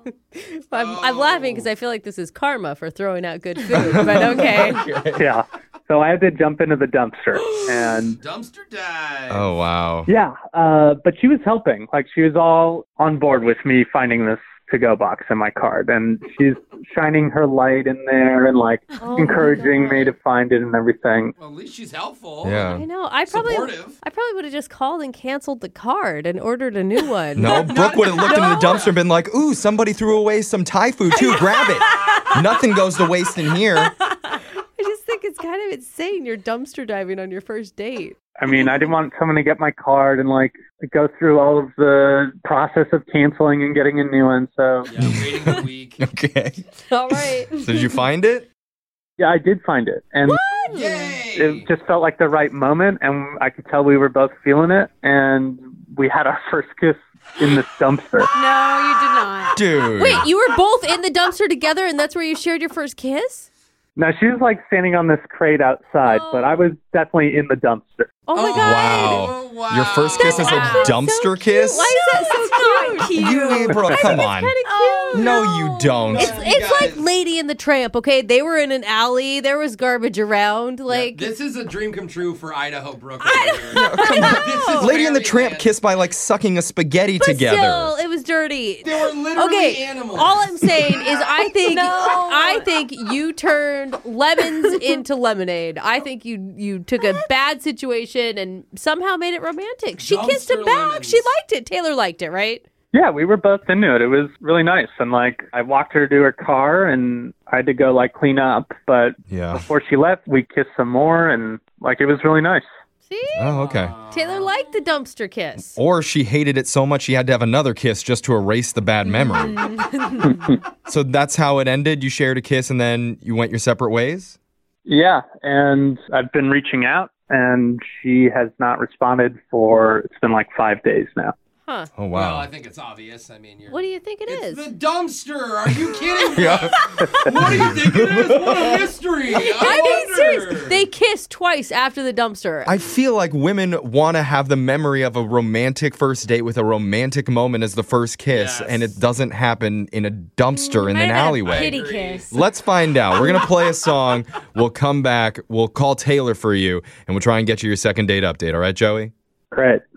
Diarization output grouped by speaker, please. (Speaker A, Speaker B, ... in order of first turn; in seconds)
Speaker A: 0.3-4.9, 19.0-20.1, 22.6-28.9, 31.1-32.3, 33.9-38.2, 46.9-47.5, 50.2-51.0, 60.0-63.5, 68.3-69.3, 70.1-75.5, 76.0-81.3, 83.2-85.0, 87.2-102.6, 113.1-115.8, 131.7-131.9, 133.7-134.7, 139.3-142.7
Speaker B: 0.7-1.7, 8.2-9.6, 21.4-22.7, 23.3-24.0, 27.4-29.0, 44.9-46.0, 50.7-51.7, 68.3-70.7, 76.1-77.1, 80.9-85.8, 88.8-91.4, 100.0-101.3, 113.5-114.5, 132.1-140.8, 148.3-149.0, 151.4-152.3
Speaker C: 3.7-5.2, 9.3-10.1, 22.4-22.9, 27.4-33.9, 45.0-48.5, 59.5-60.3, 68.5-72.0, 73.1-74.6, 75.1-76.4, 83.7-88.0, 109.3-109.7, 113.3-113.9, 115.7-119.6, 120.9-124.4, 132.0-132.5, 136.2-136.8, 137.4-138.7, 142.7-159.1
Speaker D: 5.2-8.2, 10.1-21.3, 38.4-44.9, 49.2-50.4, 51.3-58.3, 64.0-68.2, 102.9-112.6, 120.2-120.5, 124.9-131.3, 159.5-159.8
Speaker E: 19.1-19.7, 50.3-51.2, 58.3-59.6, 66.0-66.6, 70.4-71.0, 71.8-74.0, 74.7-76.4, 83.9-84.2, 91.6-92.7, 119.0-120.6, 150.5-152.4